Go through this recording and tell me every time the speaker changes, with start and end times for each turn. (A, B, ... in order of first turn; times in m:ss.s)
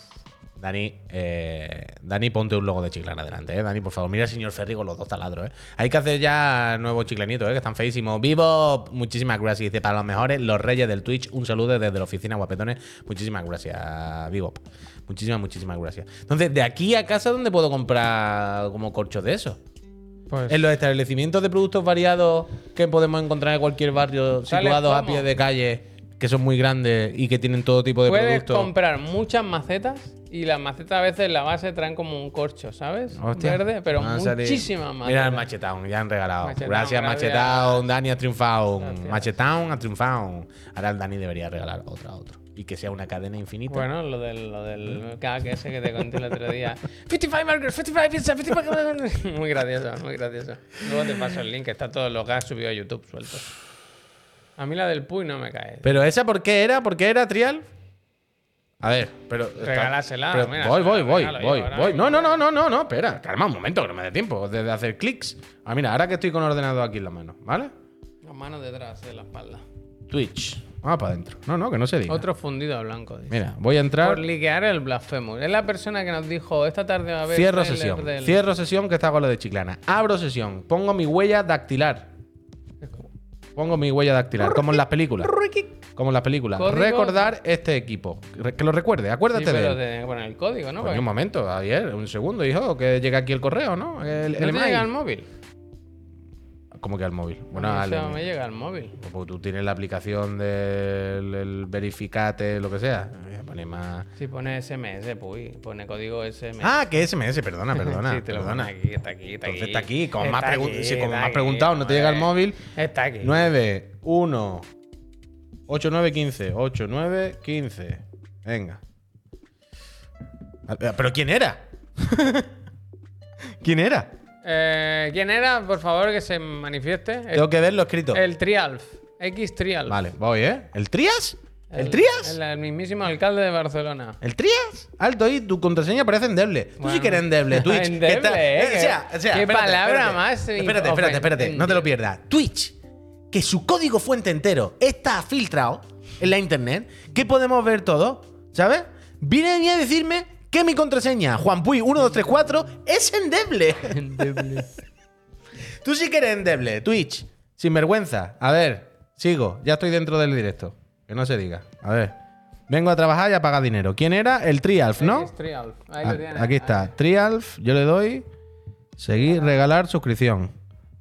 0:00.6-0:19.6 A
0:20.3-0:20.6 B
0:20.5-0:28.7 A
0:24.5-0:25.3 B
0:28.0-0:35.5 B
0:33.1-0:43.9 A
0:36.4-0:37.9 B
0:38.8-0:39.3 B
0:43.7-0:53.5 B
0:54.6-0:55.9 B
0:55.8-0:57.6 A
0:58.8-1:07.7 A
0:59.6-1:02.4 B
1:08.2-1:09.6 B
1:10.1-1:12.3 A
1:12.1-1:13.4 B
1:13.3-1:14.2 A
1:14.0-1:18.4 B
1:17.3-1:22.1 A
1:23.6-1:25.3 A
1:24.4-1:25.7 B
1:26.0-1:29.8 A
1:26.6-1:27.3 B
1:29.3-1:31.0 B
1:30.8-1:34.9 A
1:34.4-1:35.3 B
1:36.8-1:38.2 A
1:37.5-1:39.0 B
1:39.0-1:44.1 A
1:44.2-1:47.0 B
1:46.6-1:48.7 A
1:47.7-1:53.5 B
1:49.4-1:52.6 A
1:53.2-1:54.6 A
1:55.7-1:58.8 A
2:00.7-2:02.5 A
2:03.6-2:04.1 A
2:04.4-2:07.5 B
2:07.3-2:08.2 A
2:08.1-2:10.0 B
2:09.9-2:12.4 A
2:11.7-2:14.2 B
2:14.2-2:22.7 A
2:16.8-2:21.9 B
2:23.3-2:34.6 A
2:33.9-2:34.7 B
2:35.8-2:42.1 A
2:42.7-2:45.3 A
2:45.0-2:46.9 B
2:46.0-2:48.2 A
2:49.0-2:50.5 A
2:49.2-2:49.6 B